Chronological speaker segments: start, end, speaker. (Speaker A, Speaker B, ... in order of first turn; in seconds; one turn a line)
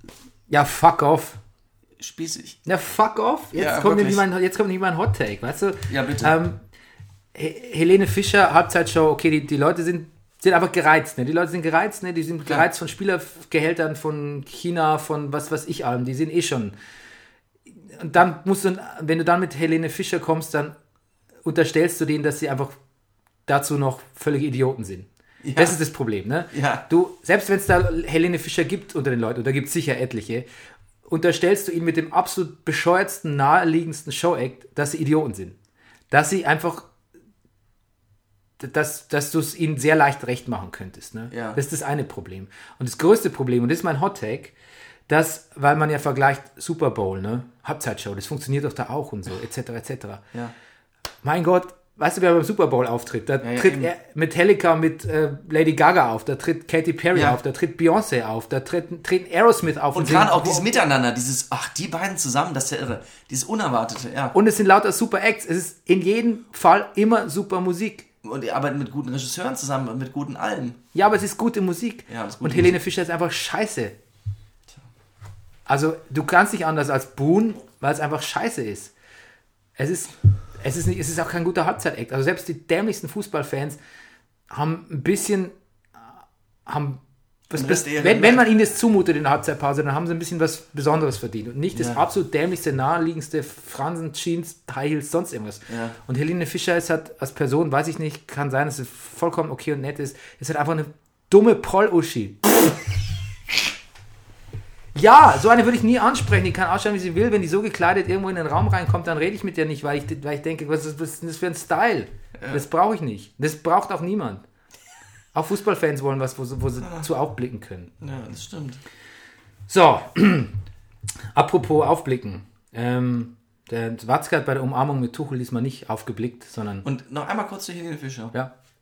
Speaker A: 0.5-1.4
Speaker B: 2.0-2.6
Speaker A: 2.6-6.6
Speaker B: 3.5-4.2
Speaker B: 5.9-6.3
Speaker A: 7.3-16.7
Speaker A: 17.8-20.7
Speaker A: 21.4-22.8
Speaker A: 23.5-30.4
Speaker B: 25.4-25.8
Speaker B: 26.5-26.8
Speaker A: 31.1-35.6
Speaker A: 36.1-36.9
Speaker A: 38.6-44.5
Speaker B: 41.3-41.6
Speaker A: 45.1-50.2
Speaker A: 51.2-60.7
Speaker B: 53.4-53.9
Speaker B: 59.9-64.3
Speaker A: 64.3-68.1
Speaker B: 68.2-70.8
Speaker A: 70.9-73.9
Speaker B: 72.1-72.8
Speaker A: 75.7-78.9
Speaker A: 79.8-83.8
Speaker A: 84.5-86.0
Speaker A: 86.7-102.8
Speaker B: 87.5-88.4
Speaker B: 91.7-92.0
Speaker B: 95.7-96.0
Speaker A: 104.9-114.4
Speaker B: 112.4-112.6
Speaker A: 115.3-117.9
Speaker B: 116.8-117.1
Speaker B: 118.0-118.8
Speaker A: 119.7-120.5
Speaker A: 121.3-126.8
Speaker B: 126.8-128.3